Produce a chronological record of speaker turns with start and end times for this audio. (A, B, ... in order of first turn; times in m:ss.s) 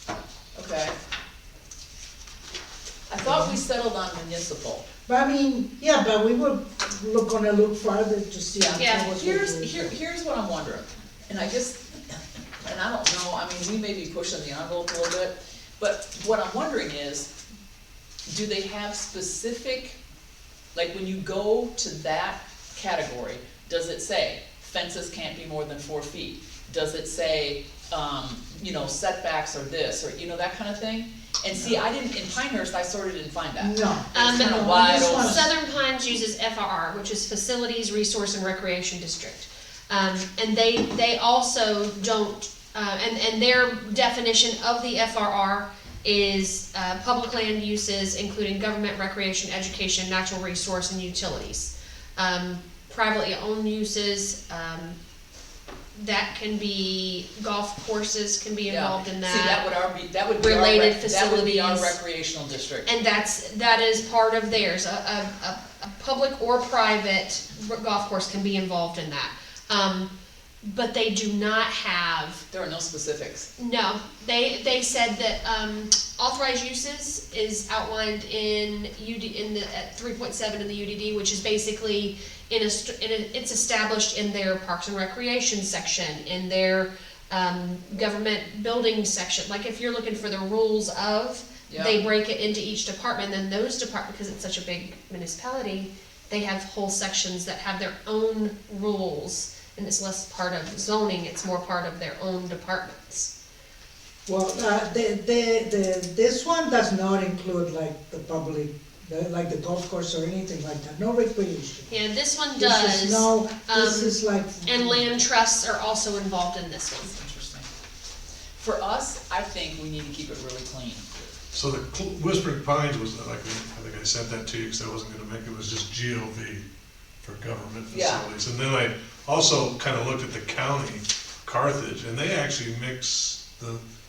0:00.5-0:01.0 A
0:03.1-0:04.8 A
0:03.2-0:03.6 B
0:05.1-0:10.0 B
0:08.6-0:17.3 A
0:08.8-0:09.1 C
0:18.3-0:20.0 A
0:20.7-0:35.5 A
0:33.6-0:35.5 B
0:34.1-0:55.0 C
0:55.9-0:59.6 C
0:58.7-1:02.9 A
1:00.4-1:02.0 C
1:02.8-1:10.1 C
1:10.6-1:12.4 C
1:12.5-1:13.5 A
1:13.6-1:43.3 C
1:31.7-1:32.0 A
1:44.3-1:52.0 B
1:51.9-1:57.1 C
1:52.6-1:55.0 B
1:57.0-1:57.7 A
1:58.6-2:01.3 A
2:01.5-2:06.6 D
2:07.2-2:13.8 D
2:07.9-2:08.3 A